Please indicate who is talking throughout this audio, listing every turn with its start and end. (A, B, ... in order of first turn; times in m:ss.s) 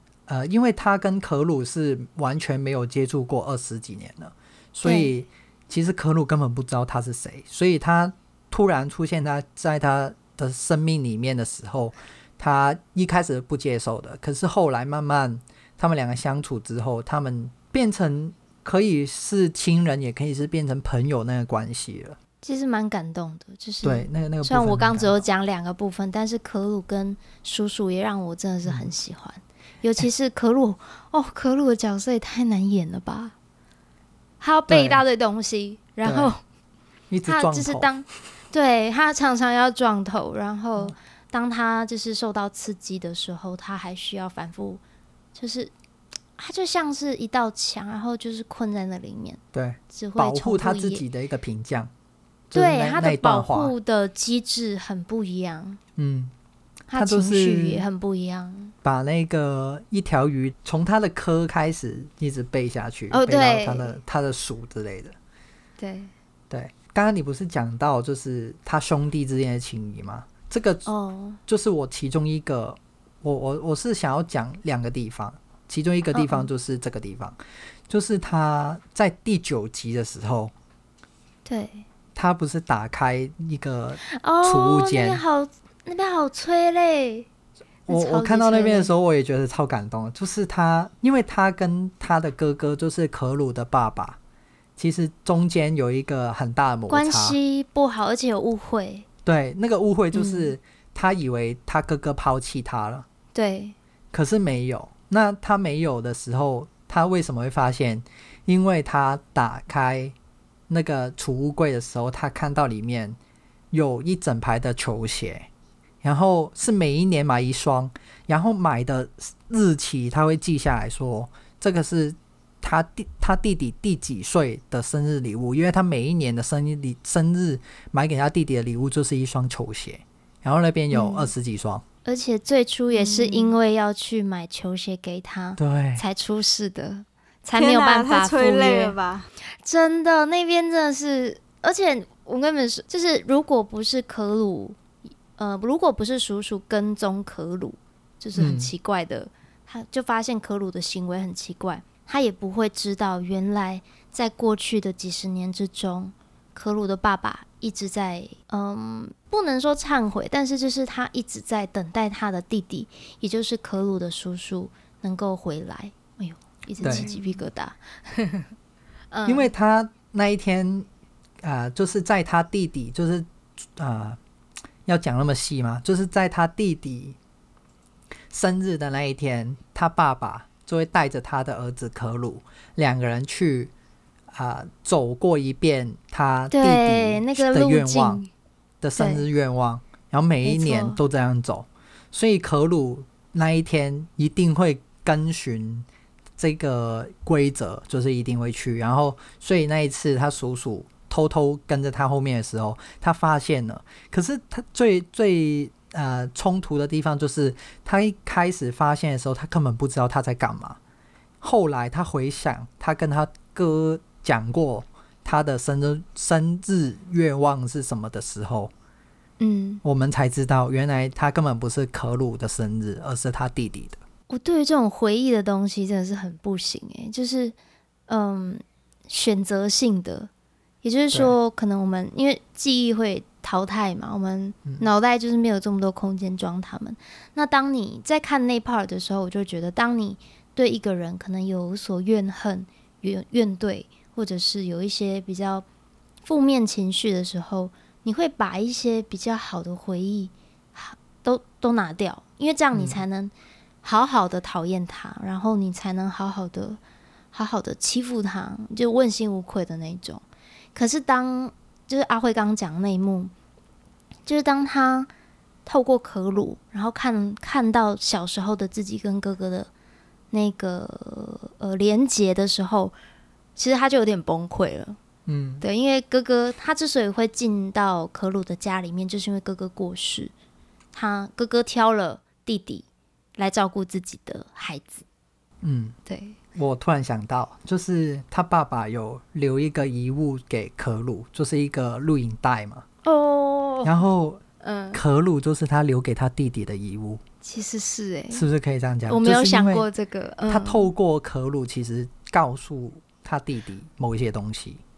0:00.3-0:22.2 A
0:04.8-0:05.1 B
0:22.4-0:33.3 B
0:23.8-0:25.2 A
0:34.4-0:36.4 B
0:34.7-0:35.0 A
0:36.0-0:36.3 A
0:37.1-0:37.9 A
0:37.3-0:44.8 B
0:45.4-0:45.7 B
0:46.4-0:49.4 B
0:49.5-0:51.9 A
0:49.9-0:51.0 B
0:52.5-0:53.7 A
0:52.5-0:55.8 B
0:56.0-0:56.3 A
0:56.9-0:58.7 B
0:56.9-0:57.8 A
0:58.8-1:05.2 A
1:03.1-1:04.0 B
1:05.8-1:06.1 B
1:06.5-1:10.9 A
1:10.9-1:11.4 B
1:11.5-1:17.4 A
1:16.1-1:16.5 B
1:17.9-1:20.5 A
1:21.4-1:21.9 B
1:22.2-1:25.2 A
1:24.0-1:27.3 B
1:27.9-1:28.9 B
1:27.9-1:34.2 A
1:34.8-1:37.4 A
1:36.9-1:39.1 B
1:39.2-1:43.1 A
1:40.1-1:40.5 B
1:43.3-1:43.8 B
1:44.1-1:50.2 A
1:50.7-1:53.2 A
1:53.7-1:55.5 A
1:56.0-2:11.8 A
2:10.9-2:11.3 B
2:12.0-2:19.0 B
2:12.9-2:13.6 C
2:15.6-2:16.0 A
2:17.6-2:19.3 C
2:19.6-2:24.8 B
2:25.4-2:48.5 B
2:28.4-2:28.7 A
2:46.8-2:47.1 A
2:46.8-2:47.4 C
2:49.1-2:49.5 B
2:49.3-2:50.9 A
2:51.4-2:54.2 A
2:54.9-2:57.2 A
2:58.3-3:03.7 A
3:04.3-3:08.2 A
3:06.5-3:08.3 B
3:08.8-3:15.9 A
3:09.0-3:09.2 B
3:10.4-3:11.0 B
3:16.4-3:30.8 A
3:31.4-3:38.7 A
3:39.4-3:39.8 B
3:39.8-3:44.0 A
3:44.3-3:47.6 B
3:48.1-3:50.3 B
3:50.8-4:05.6 B
4:06.2-4:13.3 B
4:12.7-4:13.0 A
4:13.8-4:16.8 B
4:17.3-4:20.2 B
4:20.8-4:23.3 B
4:24.3-4:25.1 B
4:25.7-4:29.7 B
4:30.3-4:32.9 B
4:33.6-4:35.0 B
4:35.3-4:35.6 A
4:35.6-4:40.3 B
4:40.9-4:42.8 B
4:43.4-4:45.0 B
4:45.6-4:46.0 A
4:46.1-4:46.4 B
4:46.6-4:52.8 A
4:53.0-4:54.0 B
4:53.8-4:54.4 A
4:54.6-4:55.0 B
4:54.9-4:57.2 A
4:57.4-4:58.4 B
4:58.3-4:59.9 A
4:59.1-5:00.9 B
5:00.5-5:04.8 A